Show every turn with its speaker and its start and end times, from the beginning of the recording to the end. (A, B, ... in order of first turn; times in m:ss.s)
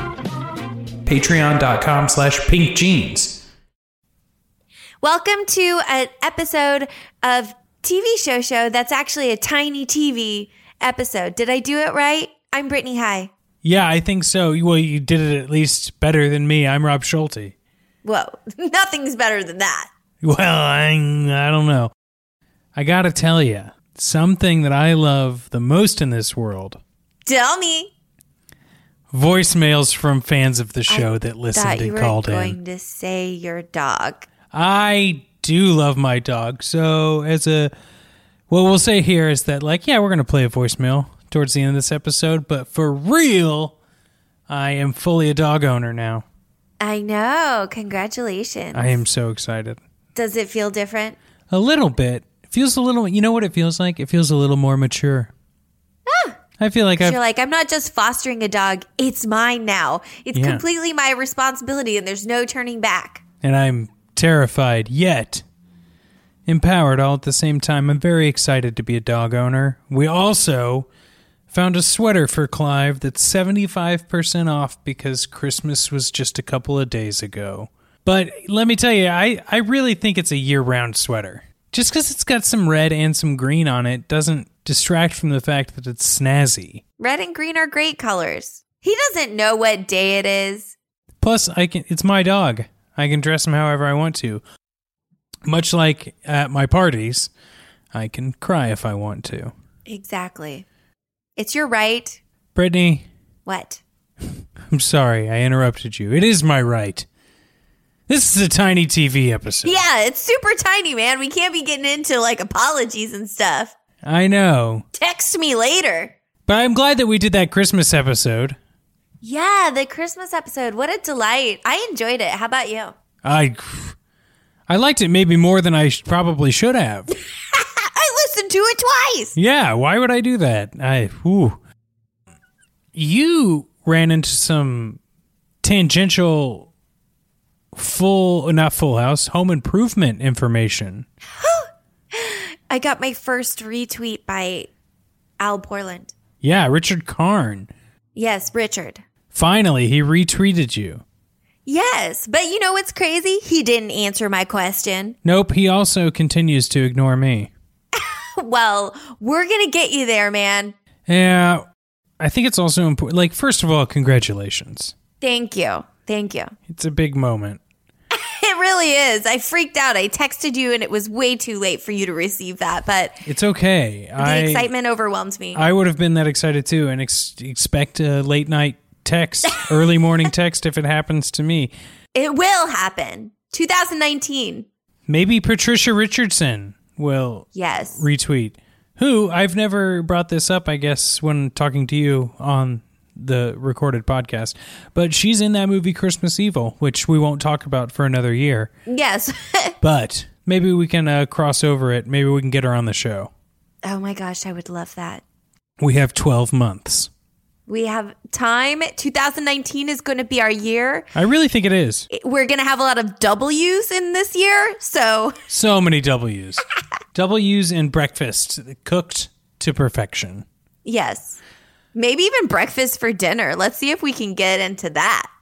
0:01.1-0:03.4 A
0:05.0-0:13.3 B
0:13.6-0:17.5 A
0:18.0-0:19.9 B
0:20.2-0:21.9 A
0:22.8-0:26.8 A
0:27.3-0:27.9 B
0:29.1-0:32.6 A
0:30.9-0:34.3 B
0:34.5-0:37.7 A
0:38.5-0:43.8 A
0:44.5-0:46.2 A
0:46.8-0:49.0 B
0:48.7-0:49.8 A
0:50.2-0:51.2 B
0:51.5-0:55.3 A
0:56.1-0:56.4 B
0:56.6-0:57.2 A
0:57.0-1:03.2 B
1:00.3-1:00.6 A
1:03.4-1:05.4 A
1:06.5-1:10.9 A
1:11.5-1:26.8 A
1:27.0-1:30.8 B
1:31.2-1:34.4 A
1:35.5-1:37.3 A
1:37.9-1:39.5 A
1:39.9-1:40.6 B
1:41.4-1:42.2 B
1:42.6-1:43.1 A
1:43.5-1:43.8 B
1:44.7-1:47.1 A
1:48.1-1:49.8 A
1:49.6-1:53.7 B
1:54.0-1:54.9 A
1:55.0-1:56.1 B
1:56.5-1:58.6 A
1:59.2-2:02.9 B
2:03.2-2:04.0 A
2:04.7-2:07.2 A
2:07.5-2:09.4 B
2:09.4-2:11.6 A
2:13.0-2:15.0 A
2:15.6-2:16.7 A
2:17.7-2:21.0 A
2:21.4-2:24.7 B
2:25.4-2:26.1 B
2:26.4-2:27.7 A
2:28.2-2:29.0 B
2:29.3-2:31.0 A
2:31.7-2:35.2 B
2:35.2-2:37.5 A
2:37.9-2:40.7 B
2:41.1-2:41.7 A
2:42.2-2:44.9 A
2:45.2-2:46.5 B
2:46.7-2:47.6 A
2:48.1-2:53.2 B
2:53.2-2:54.7 A
2:54.2-2:55.6 B
2:55.6-3:01.7 A
3:02.2-3:04.7 B
3:05.1-3:18.7 A
3:07.6-3:08.0 B
3:18.9-3:19.8 B
3:19.8-3:23.3 A
3:23.8-3:25.2 B
3:25.8-3:27.1 A
3:27.7-3:31.1 B
3:31.1-3:32.1 A
3:32.1-3:35.4 B
3:35.5-3:40.5 A
3:40.8-3:41.4 B
3:42.0-3:45.3 B